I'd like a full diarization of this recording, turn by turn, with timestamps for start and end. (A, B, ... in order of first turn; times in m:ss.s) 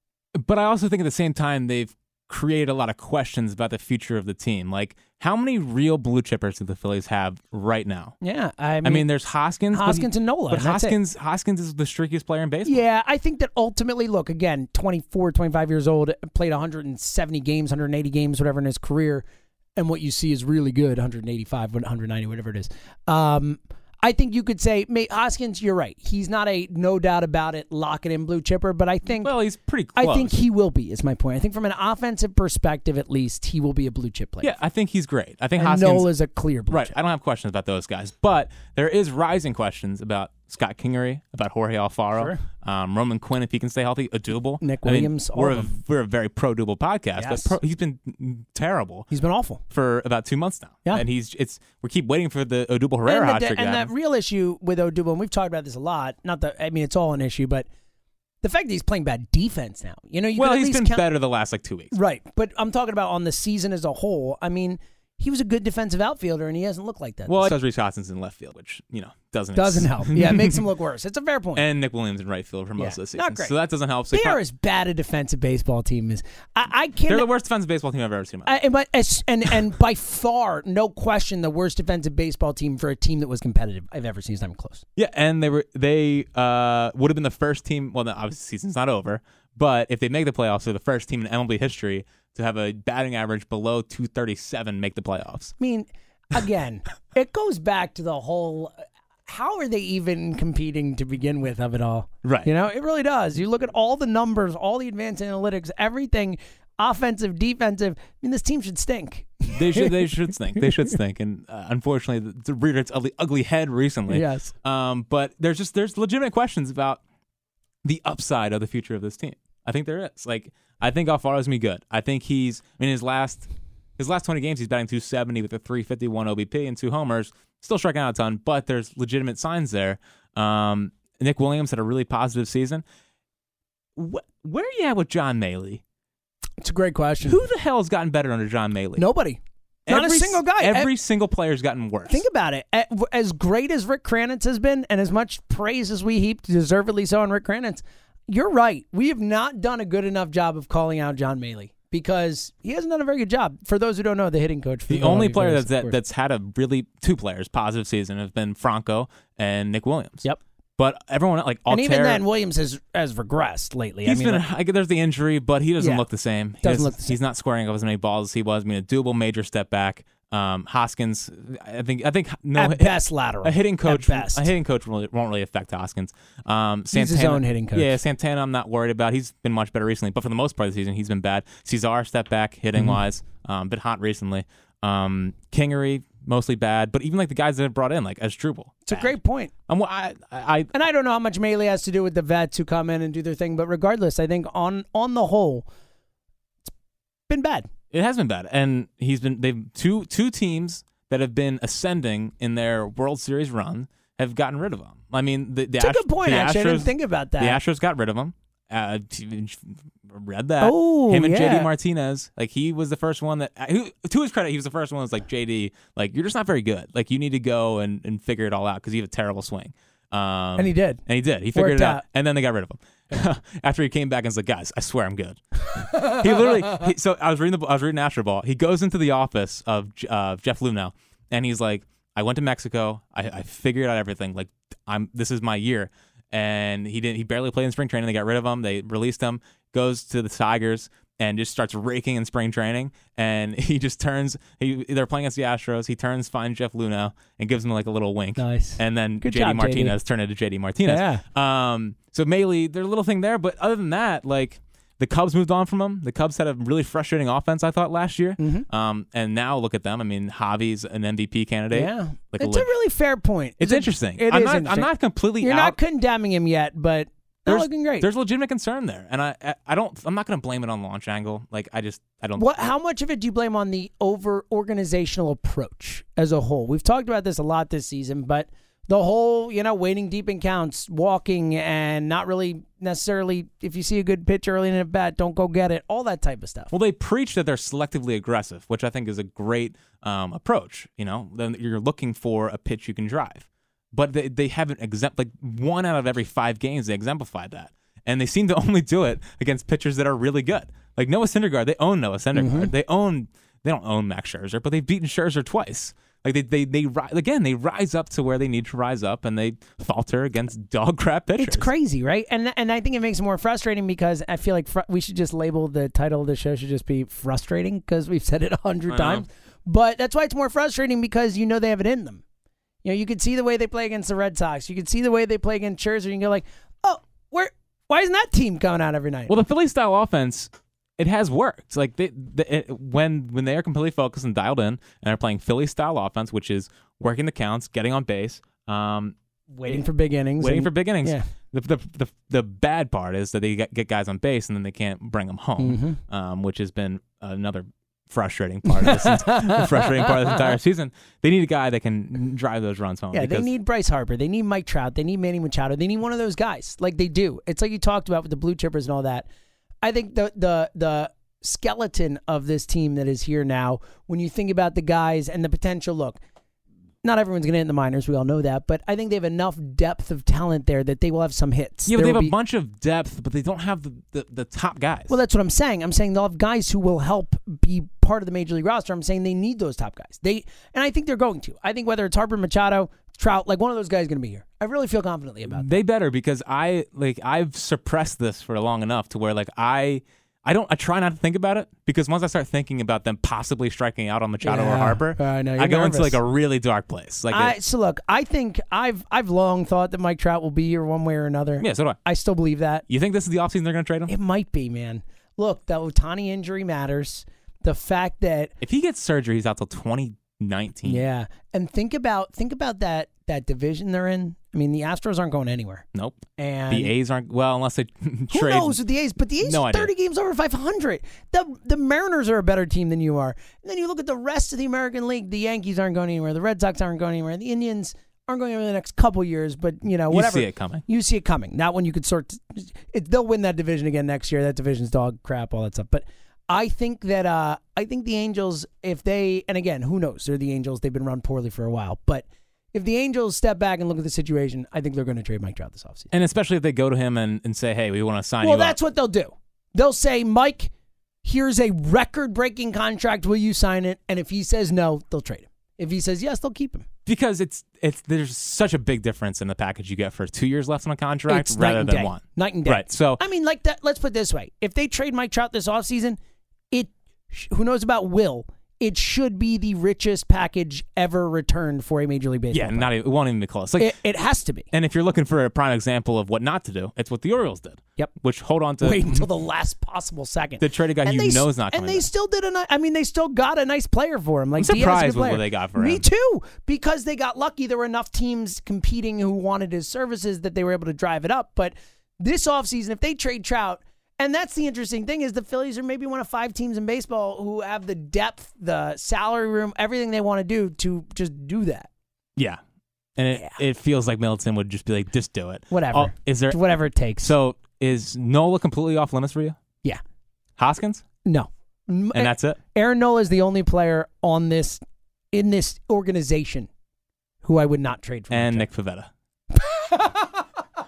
0:00.4-0:08.2 A
0:08.2-0:09.1 B
0:08.8-0:12.8 A
0:09.7-0:11.0 B
0:12.7-0:19.2 B
0:19.8-0:29.3 B
0:29.1-0:30.4 A
0:30.0-0:34.6 B
0:34.4-0:36.1 A
0:35.6-0:36.9 B
0:36.7-0:49.1 A
0:44.6-0:45.7 B
0:47.2-0:47.6 B
0:49.1-0:49.6 B
0:49.7-0:53.9 A
0:53.0-0:57.7 B
0:58.4-1:01.0 B
1:00.4-1:02.0 A
1:01.9-1:07.6 B
1:07.3-1:10.6 A
1:09.6-1:11.6 B
1:11.6-1:14.4 A
1:12.8-1:13.5 B
1:14.1-1:17.3 B
1:17.1-1:18.6 A
1:18.5-1:24.8 B
1:25.0-1:35.5 A
1:35.6-1:38.7 B
1:39.3-1:50.8 B
1:49.5-1:57.0 A
1:54.1-1:54.5 B
1:57.8-2:03.5 A
2:04.0-2:12.8 A
2:14.0-2:15.8 A
2:16.6-2:17.5 B
2:17.2-2:19.0 A
2:19.0-2:20.9 B
2:19.9-2:22.2 A
2:22.1-2:36.0 B
2:34.9-2:40.2 A
2:40.8-2:42.2 A
2:41.7-2:44.4 B
2:44.0-3:09.2 A
2:45.8-2:46.0 B
2:46.6-2:47.2 B
2:52.6-2:54.5 B
2:56.9-2:58.0 B
3:08.9-3:09.5 B
3:09.7-3:10.7 A
3:10.7-3:15.6 B
3:17.3-3:17.7 B
3:17.9-4:22.7 A
3:25.8-3:27.6 B
3:30.6-3:31.7 B
3:40.6-3:41.0 B
3:41.5-3:42.0 B
4:08.4-4:10.0 B
4:10.9-4:11.2 B
4:18.4-4:18.7 B
4:21.7-4:28.1 B
4:23.6-4:25.8 A
4:27.5-4:32.5 A
4:32.4-4:46.7 B
4:46.7-5:11.7 A
5:02.3-5:02.7 B
5:11.4-5:22.2 B
5:18.9-5:19.3 A
5:22.8-5:29.3 B
5:29.3-5:39.2 A
5:39.5-5:41.3 B
5:40.4-5:53.5 A
5:45.6-5:46.0 B
5:48.7-5:50.1 B
5:53.1-5:59.3 B
5:59.8-6:06.2 B
6:07.0-6:12.3 B
6:11.9-6:15.1 A
6:15.1-6:25.7 B
6:25.5-6:37.6 A
6:34.4-6:36.2 B
6:37.3-6:42.8 B
6:41.6-6:42.0 A
6:42.9-6:44.1 A
6:44.1-6:48.5 B
6:48.6-6:51.0 A
6:50.8-6:56.9 B
6:55.9-6:58.8 A
6:58.3-7:26.1 B
6:59.4-6:59.9 A
7:10.1-7:10.8 A
7:26.1-7:28.8 A
7:28.4-7:30.7 B
7:31.2-7:36.9 B
7:37.1-7:43.2 A
7:41.3-7:46.2 B
7:46.7-7:52.9 B
7:52.5-7:54.0 A
7:53.8-7:54.7 B
7:54.7-7:59.3 A
7:58.8-8:21.9 B
8:00.6-8:02.1 A
8:04.6-8:06.1 A
8:23.2-8:26.6 A
8:25.7-8:27.3 B
8:27.2-8:29.6 A
8:30.6-8:31.0 A
8:31.2-8:34.8 B
8:32.1-8:32.6 A
8:35.3-8:36.7 B
8:37.4-8:38.7 B
8:38.3-8:39.1 A
8:39.5-8:40.4 B